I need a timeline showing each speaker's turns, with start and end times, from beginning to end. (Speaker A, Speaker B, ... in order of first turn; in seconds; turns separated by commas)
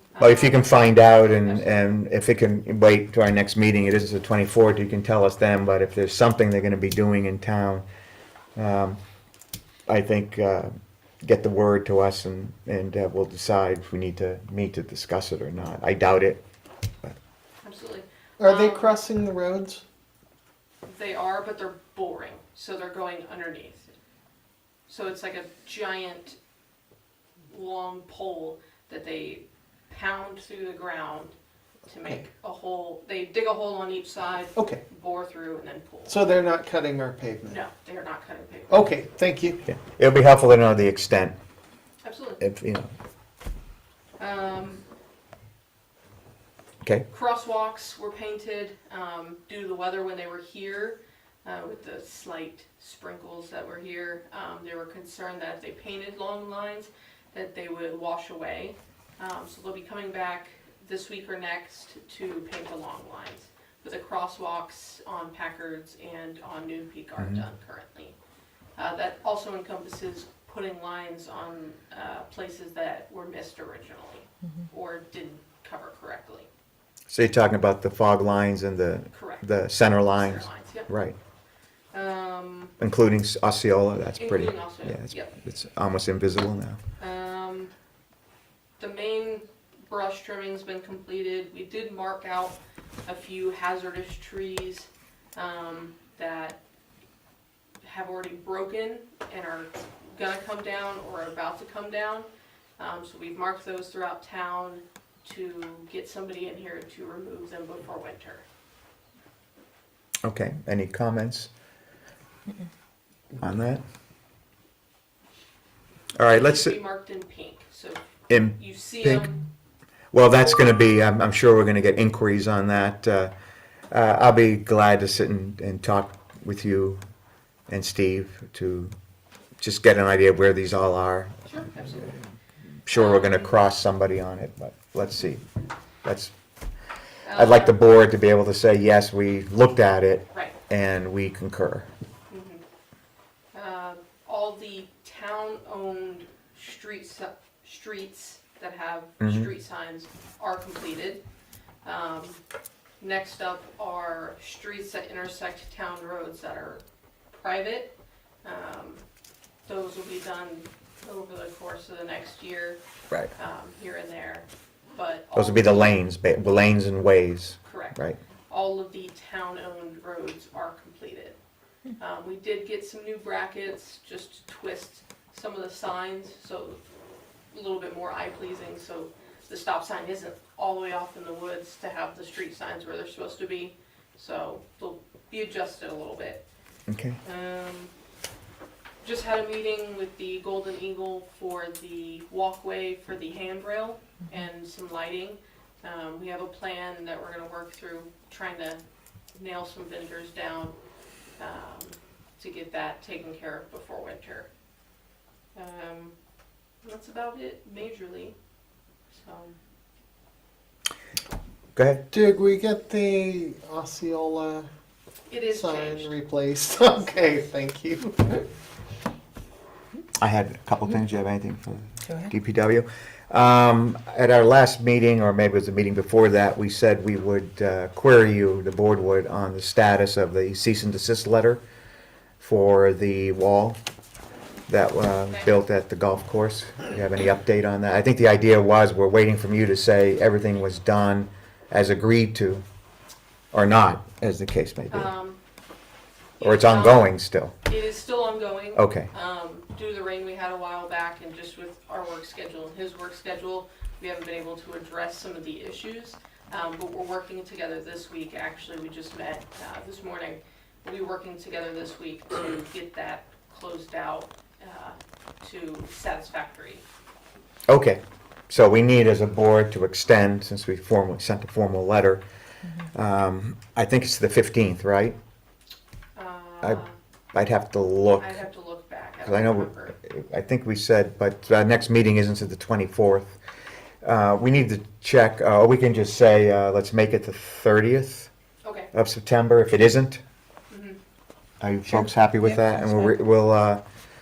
Speaker A: 0.1-1.9, Speaker B: 0.2-7.9, Speaker B: 8.6-9.0, Speaker B: 9.9-10.7, Speaker B: 11.2-16.4, Speaker A: 17.6-18.9, Speaker C: 18.4-19.8, Speaker A: 20.9-23.9, Speaker A: 24.9-26.4, Speaker A: 27.5-31.4, Speaker A: 31.9-36.2, Speaker C: 34.6-34.8, Speaker C: 36.1-37.6, Speaker A: 37.5-39.0, Speaker C: 38.7-39.7, Speaker B: 39.7-41.4, Speaker A: 42.0-42.4, Speaker B: 42.4-42.9, Speaker A: 44.2-44.8, Speaker A: 47.1-68.2, Speaker B: 67.2-67.4, Speaker A: 68.8-76.5, Speaker B: 77.1-81.2, Speaker A: 79.1-79.4, Speaker A: 80.1-80.9, Speaker A: 81.9-82.8, Speaker B: 82.8-86.8, Speaker A: 84.2-85.3, Speaker A: 87.0-87.7, Speaker A: 88.8-96.6, Speaker A: 97.8-102.3, Speaker A: 102.8-108.5, Speaker B: 110.2-111.5, Speaker B: 113.4-113.8, Speaker B: 116.2-116.8, Speaker A: 116.3-119.4, Speaker B: 118.3-119.3, Speaker B: 120.1-123.3, Speaker B: 123.9-127.0, Speaker B: 127.7-128.9, Speaker B: 129.6-132.2, Speaker A: 131.5-132.2, Speaker B: 132.9-135.4, Speaker A: 132.9-133.7, Speaker B: 136.0-136.3, Speaker A: 137.2-137.8, Speaker B: 137.3-141.9, Speaker A: 142.3-142.6, Speaker A: 143.5-151.2, Speaker B: 149.2-149.5, Speaker A: 151.8-152.4, Speaker A: 153.0-157.9, Speaker A: 158.4-159.0, Speaker A: 159.7-162.8, Speaker A: 163.4-166.0, Speaker B: 165.4-168.2, Speaker A: 167.7-171.4, Speaker A: 172.0-176.8, Speaker A: 177.5-186.4, Speaker B: 186.9-187.2, Speaker A: 187.2-187.9, Speaker A: 189.0-198.8, Speaker A: 199.3-200.7, Speaker A: 201.4-204.5, Speaker A: 205.6-206.2, Speaker A: 206.8-208.3, Speaker A: 209.1-209.5, Speaker B: 211.8-212.1, Speaker C: 212.1-214.7, Speaker A: 215.3-216.1, Speaker C: 215.5-218.5, Speaker B: 220.2-231.6, Speaker B: 232.4-233.8, Speaker B: 234.7-242.6, Speaker B: 243.5-245.1, Speaker A: 244.9-245.4, Speaker A: 246.4-247.1, Speaker B: 246.4-247.6, Speaker A: 247.7-266.9, Speaker B: 248.8-249.1, Speaker B: 267.7-272.2, Speaker B: 272.8-275.2, Speaker A: 276.2-276.9, Speaker B: 276.6-278.4, Speaker A: 278.2-279.9, Speaker B: 279.2-283.4, Speaker B: 284.0-288.3, Speaker A: 288.6-288.9, Speaker B: 288.9-290.2, Speaker A: 290.7-291.0, Speaker B: 291.6-293.8